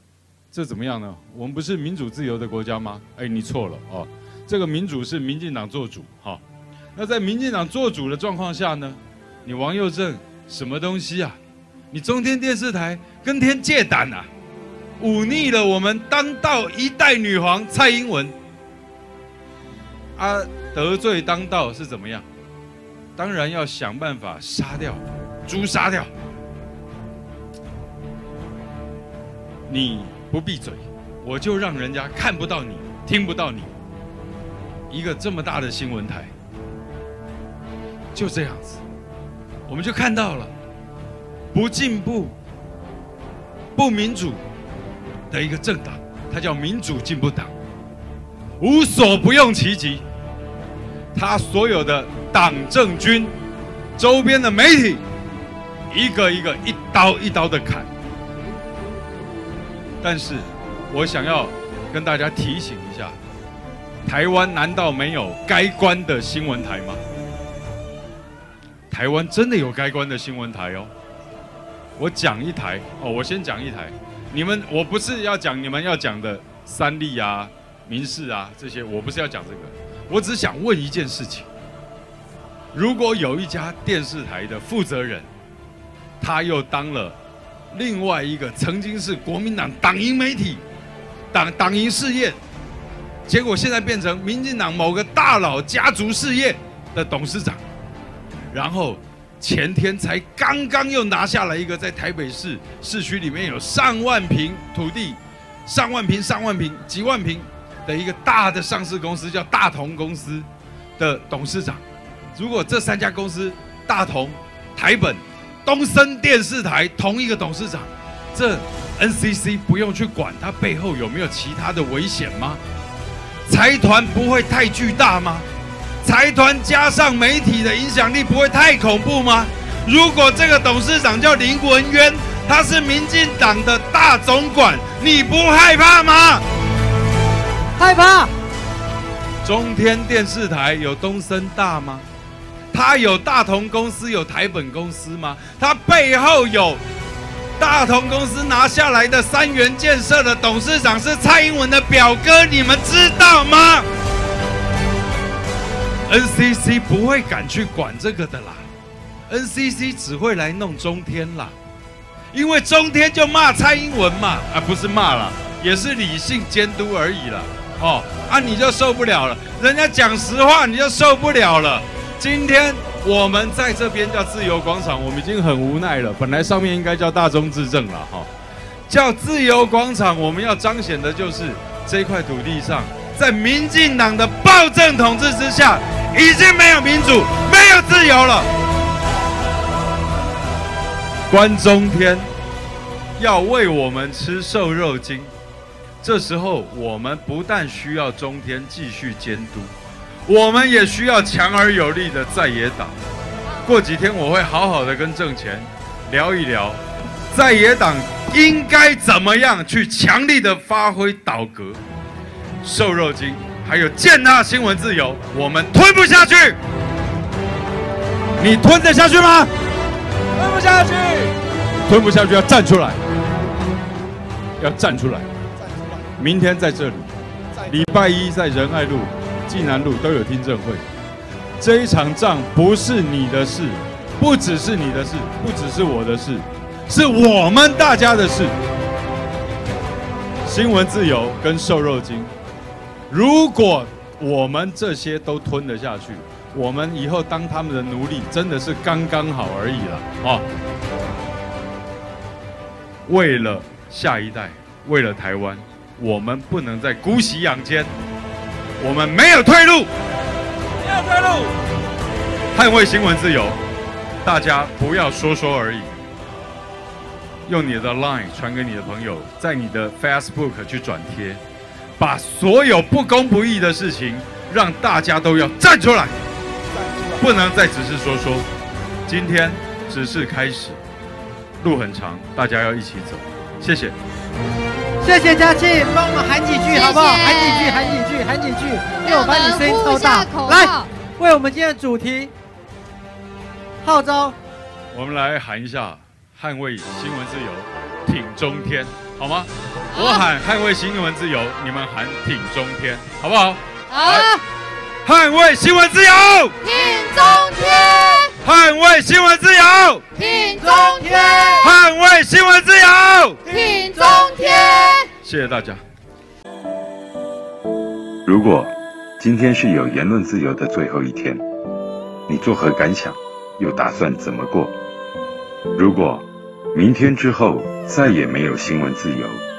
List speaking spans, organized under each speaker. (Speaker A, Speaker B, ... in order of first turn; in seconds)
Speaker A: 0.5-6.4, 7.0-11.4, 11.9-14.3, 15.0-18.4, 20.2-22.3, 23.2-26.1, 29.7-33.8, 34.9-36.3, 38.1-38.8, 39.7-40.5, 41.5-42.4, 43.8-44.4, 45.3-47.5, 48.6-50.0, 51.1-53.4, 54.0-55.0, 55.9-57.9, 60.0-63.2, 64.0-67.0, 68.9-70.9, 72.0-81.5, 82.7-85.3, 86.2-87.2, 87.7-90.6, 91.3-92.4, 93.3-97.6, 98.5-111.8, 112.3-122.6, 123.5-125.5, 126.0-136.4, 139.4-142.1, 142.7-146.8, 147.6-153.9, 156.1-158.7, 159.3-161.6, 162.3-178.3, 178.9-188.5, 191.3-192.3, 193.2-195.3, 196.0-199.7, 200.3-203.0, 203.6-211.8, 212.6-216.6, 218.4-219.5, 220.4-221.3, 221.9-223.0, 224.6-225.3, 226.2-230.8, 231.6-238.5, 240.5-242.3, 243.1-250.5, 253.1-257.9, 258.8-259.9, 260.9-261.4, 262.5-263.6, 264.2-265.9, 267.5-271.4, 272.0-276.2, 277.2-278.5, 279.1-280.8, 281.6-284.0, 294.9-304.3, 305.0-306.5, 308.4-310.0, 311.6-313.4, 315.2-315.8
Speaker B: 137.8-138.3, 285.0-292.3, 293.8-294.4, 306.7-307.9, 310.6-311.7, 313.5-314.8
Speaker C: 286.7-288.0, 289.0-290.9, 299.9-300.3, 303.9-304.3, 306.7-308.3, 310.2-311.1, 313.5-315.0
Speaker D: 318.2-321.4, 322.3-324.8, 325.8-329.4